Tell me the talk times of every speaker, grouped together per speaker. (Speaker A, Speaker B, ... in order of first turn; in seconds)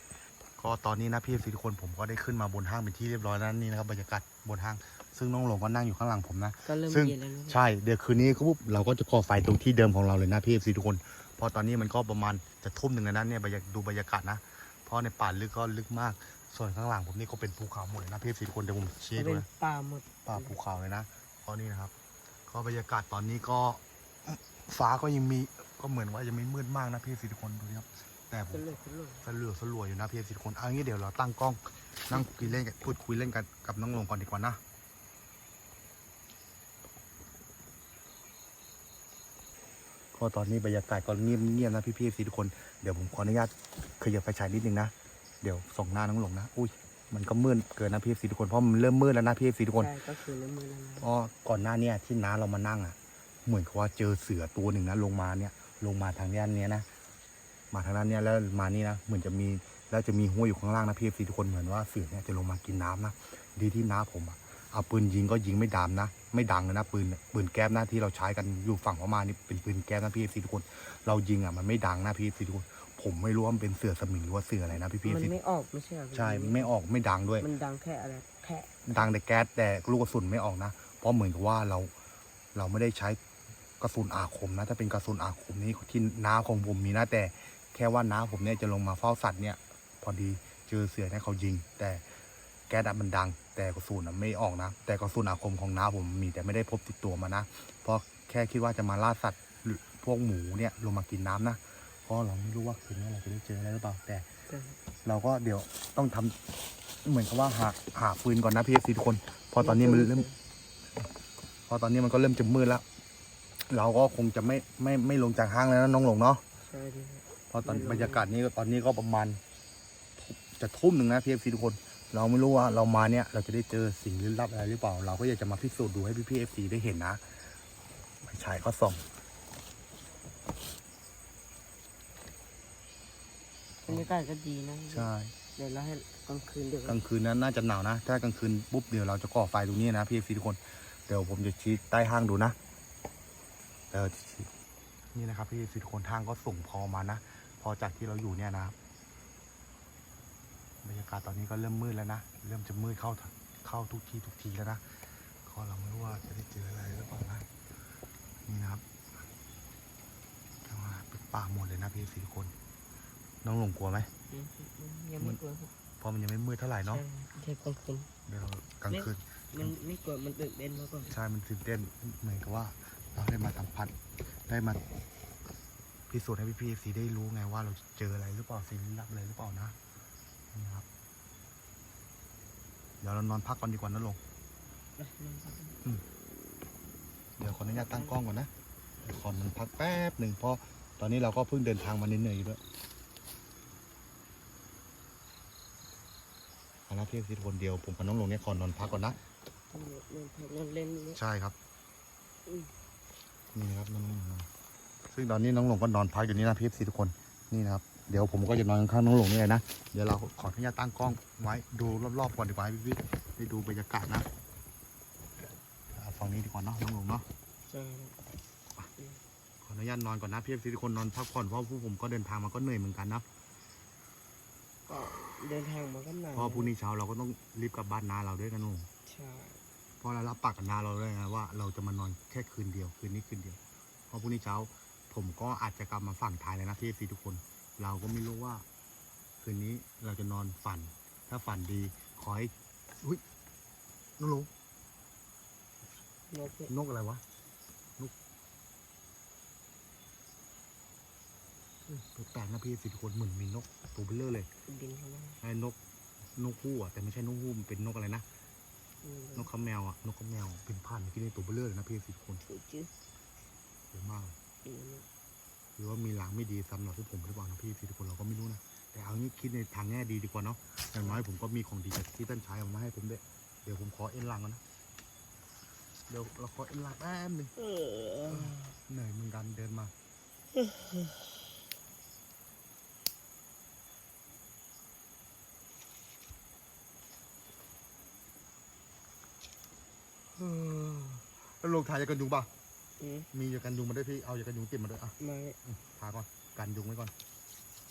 Speaker A: 0.6-19.5, 20.3-21.9, 22.5-34.6, 40.1-49.9, 51.0-56.9, 57.7-75.3, 76.1-77.5, 78.9-81.9, 82.5-83.2, 83.8-92.0, 92.7-104.3, 105.0-106.4, 107.0-110.3, 111.7-112.8, 113.7-116.4, 117.5-119.4, 120.2-127.5, 128.2-129.1, 134.9-135.3, 136.9-142.6, 143.9-144.5, 145.1-148.8, 150.8-157.5, 158.4-158.8, 160.7-162.5, 163.4-164.1, 166.0-167.0, 168.3-169.7, 171.1-173.9, 174.5-174.8, 176.1-179.8, 180.5-180.9, 183.0-184.2, 187.4-188.5, 189.0-192.6, 196.9-199.2, 201.2-201.6, 203.5-204.5, 205.1-214.3, 215.9-217.3, 219.6-223.2, 226.3-228.9, 230.0-238.7, 239.4-243.2, 244.2-244.5, 246.7-247.2, 252.1-254.5, 255.4-255.8, 256.4-258.2, 259.4-262.4, 263.9-264.4, 265.8-274.6, 276.1-277.5, 278.3-279.9, 290.4-292.5, 293.3-295.1, 295.6-297.1
Speaker B: 6.7-7.6, 19.1-20.6, 28.5-29.3, 32.1-32.6, 49.8-51.1, 75.0-76.7, 77.4-79.2, 104.5-104.8, 109.6-110.3, 116.7-118.3, 133.8-137.0, 164.3-165.7, 166.9-168.1, 168.9-171.1, 185.0-185.8, 187.8-188.2, 199.7-201.2, 202.5-202.7, 217.7-218.2, 224.9-226.7, 229.0-229.6, 246.3-246.7, 254.7-255.4, 259.0-259.5, 262.4-262.9, 264.6-265.1, 277.6-278.7, 293.0-293.3, 295.2-295.6